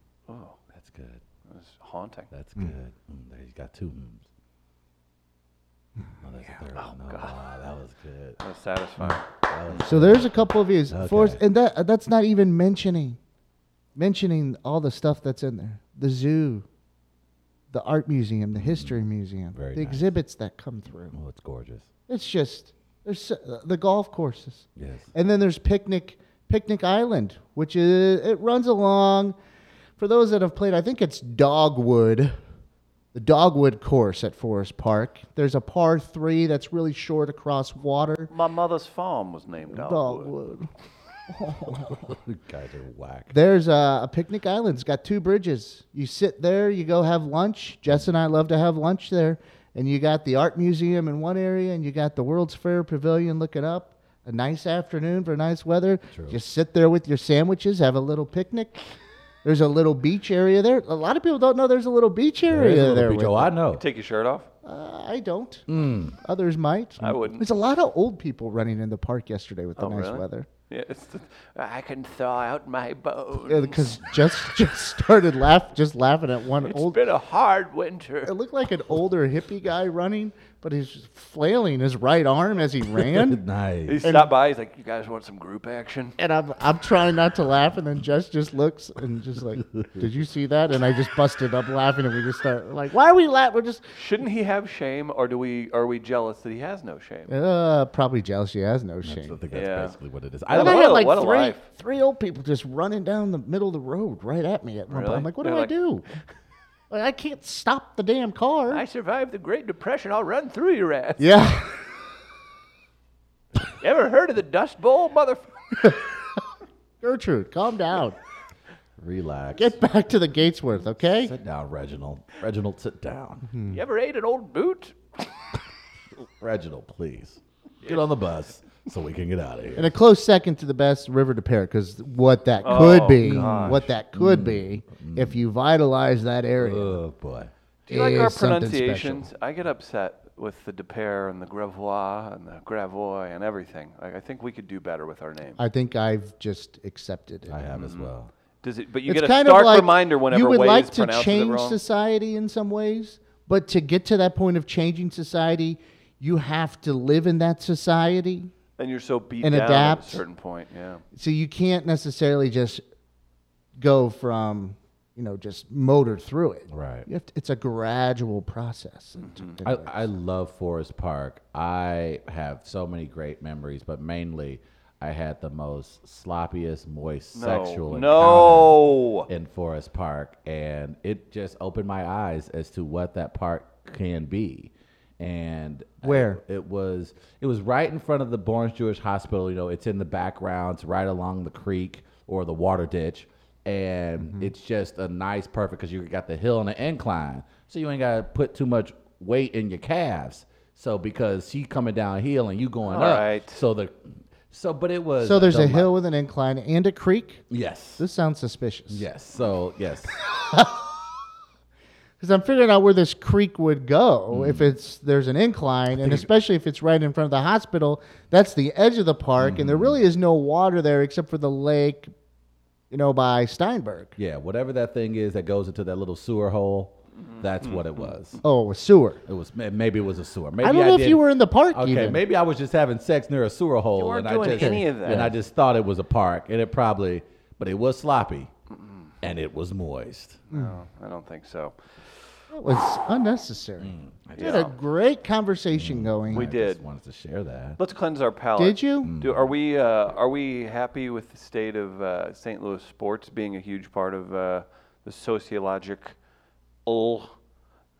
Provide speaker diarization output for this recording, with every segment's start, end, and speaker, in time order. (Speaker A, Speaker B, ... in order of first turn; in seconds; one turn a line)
Speaker A: 0.3-0.6
Speaker B: 0.7-1.2
Speaker A: 1.5-2.3
Speaker B: 2.3-4.2
Speaker B: 6.2-8.4
Speaker A: 6.8-7.4
Speaker A: 8.4-9.8
Speaker B: 9.0-11.4
Speaker C: 9.8-13.2
Speaker C: 14.0-16.7
Speaker C: 17.7-21.1
Speaker B: 18.6-19.0
Speaker B: 19.5-20.1
Speaker B: 21.1-21.9
Speaker C: 22.1-29.4
Speaker B: 24.8-25.1
Speaker C: 30.0-32.4
Speaker C: 33.1-38.3
Speaker A: 38.3-40.3
Speaker C: 39.7-40.7
Speaker C: 41.3-42.2
Speaker B: 41.9-43.3
Speaker C: 43.3-58.8
Speaker B: 56.1-56.4
Speaker C: 59.4-63.5
Speaker B: 62.5-63.8
Speaker A: 63.8-64.5
Speaker C: 64.6-70.5
Speaker B: 65.7-66.2
Speaker A: 67.0-67.5
Speaker A: 69.8-74.0
Speaker C: 73.5-77.0
Speaker A: 76.6-78.3
Speaker C: 78.2-83.4
Speaker B: 83.0-84.0
Speaker A: 83.9-86.2
Speaker C: 84.0-84.3
Speaker C: 86.2-93.8
Speaker A: 93.9-97.3
Speaker C: 97.3-99.4
Speaker B: 99.0-101.0
Speaker A: 99.5-100.0
Speaker A: 100.5-101.7
Speaker C: 100.5-106.1
Speaker A: 104.9-105.7
Speaker C: 106.9-108.8
Speaker A: 108.7-111.3
Speaker C: 111.2-111.9
Speaker A: 113.8-115.5
Speaker C: 115.8-116.1
Speaker C: 117.0-118.2
Speaker B: 119.0-119.8
Speaker C: 119.6-121.3
Speaker B: 121.0-123.5
Speaker C: 123.5-123.8
Speaker A: 123.7-125.2
Speaker B: 126.4-129.9
Speaker C: 129.8-137.0
Speaker A: 132.6-133.8
Speaker B: 133.2-135.4
Speaker B: 136.6-137.5
Speaker A: 137.9-145.6
Speaker C: 137.9-139.3
Speaker C: 145.6-147.6
Speaker B: 147.5-148.3
Speaker A: 147.8-148.1
Speaker A: 148.6-151.8
Speaker C: 149.1-158.5
Speaker A: 158.8-161.0
Speaker C: 159.4-160.2
Speaker C: 161.1-162.8
Speaker C: 163.8-170.1
Speaker B: 166.7-167.1
Speaker A: 169.2-169.6
Speaker B: 169.6-205.9
Speaker A: 177.3-179.3
Speaker C: 186.0-186.4
Speaker C: 194.2-194.5
Speaker A: 202.9-203.6
Speaker C: 205.2-207.5
Speaker B: 207.5-208.0
Speaker C: 208.0-209.1
Speaker B: 208.9-210.1
Speaker C: 210.3-210.9
Speaker C: 212.2-222.1
Speaker B: 214.3-214.7
Speaker B: 215.9-216.3
Speaker B: 219.4-220.0
Speaker C: 222.9-224.2
Speaker B: 224.2-228.4
Speaker A: 227.3-228.1
Speaker C: 228.4-229.2
Speaker B: 229.3-238.5
Speaker C: 230.6-232.2
Speaker A: 234.0-235.3
Speaker C: 234.6-235.2
Speaker A: 238.7-239.1
Speaker B: 239.2-240.4
Speaker A: 240.5-242.2
Speaker C: 240.5-240.8
Speaker C: 242.5-246.5
Speaker B: 243.8-244.7
Speaker A: 244.4-244.7
Speaker B: 245.7-247.8
Speaker A: 246.3-246.8
Speaker A: 247.8-256.2
Speaker C: 248.6-249.1
Speaker B: 249.0-249.5
Speaker A: 256.9-257.3